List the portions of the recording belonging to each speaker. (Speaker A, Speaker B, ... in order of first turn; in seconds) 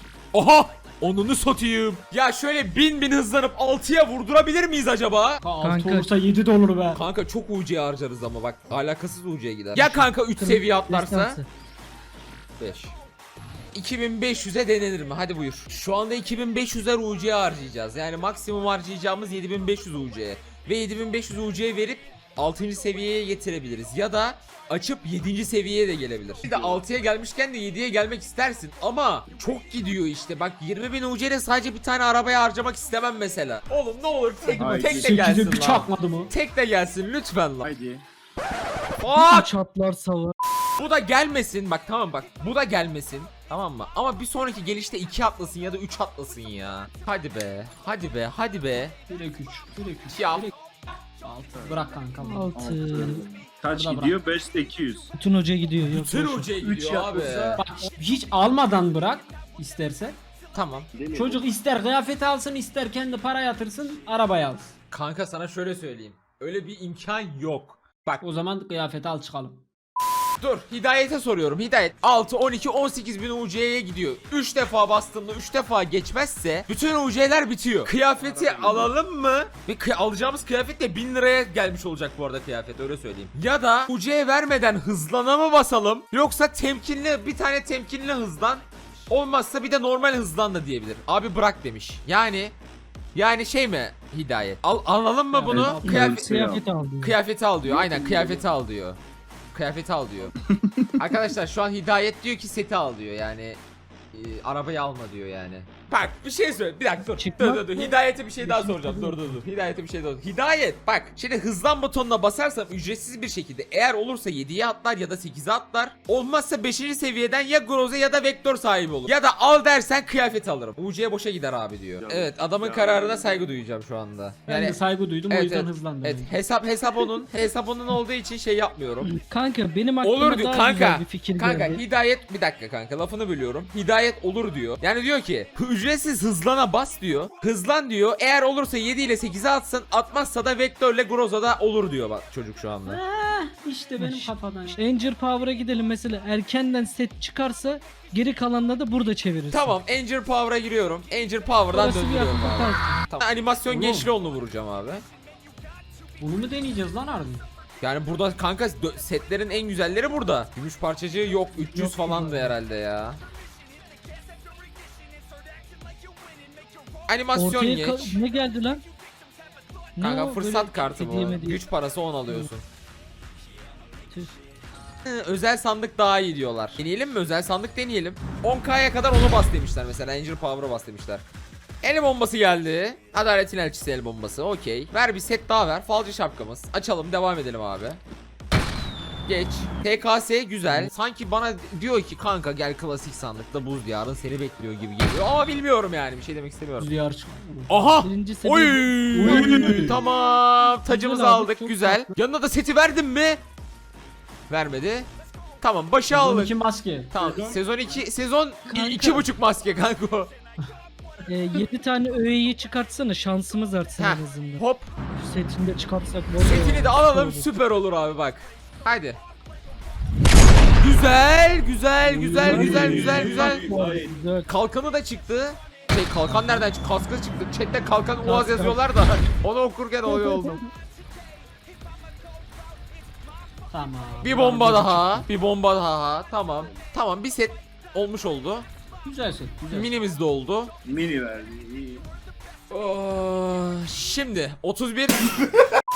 Speaker A: 0.3-5.4, 6.9-11.4, 12.6-12.9, 13.7-37.7, 39.0-39.5, 40.8-48.9, 50.1-50.5, 55.9-57.6, 60.5-60.9, 64.9-68.2, 70.4-92.5, 93.1-96.5, 97.0-99.0, 99.5-100.3, 101.0-103.6, 104.1-124.8, 125.3-129.1, 130.0-143.0, 149.5-155.0, 157.8-163.2, 167.1-168.2, 170.0-172.6, 175.0-181.2, 181.8-188.0, 189.2-196.9, 197.7-203.4, 204.5-205.1, 205.6-206.5, 207.1-210.3, 214.0-214.9, 216.4-219.2, 220.8-223.6, 224.5-230.6, 234.2-238.7, 239.7-240.7, 242.7-245.5
Speaker B: 5.4-7.0, 34.6-36.3, 49.1-50.5, 51.2-52.7, 53.7-54.2, 57.6-60.2, 61.1-64.7, 68.2-69.6, 95.3-95.9, 124.5-126.4, 142.8-144.8, 153.7-154.1, 156.2-157.4, 196.8-197.8, 199.1-200.0, 206.1-207.1, 226.3-226.7, 233.7-235.3, 239.0-239.9
Speaker C: 5.6-6.1, 9.7-11.5, 39.1-40.3, 52.2-53.2, 55.1-56.5, 95.8-97.2, 107.1-109.4, 129.1-131.8, 144.0-149.8, 151.7-153.0, 161.6-162.5, 167.3-168.8, 170.0-171.6, 198.0-200.0, 200.8-202.1, 208.7-209.3, 211.2-214.6, 215.1-217.5, 222.0-224.5, 228.2-228.8, 230.1-230.5
Speaker D: 26.4-26.8, 34.5-35.2, 37.6-38.0, 51.6-51.9, 52.5-55.1, 56.6-57.6, 60.9-61.4, 78.2-78.9, 95.5-96.6, 97.6-98.5, 100.5-100.8, 122.0-123.6, 207.2-207.6, 222.4-224.2, 240.8-242.0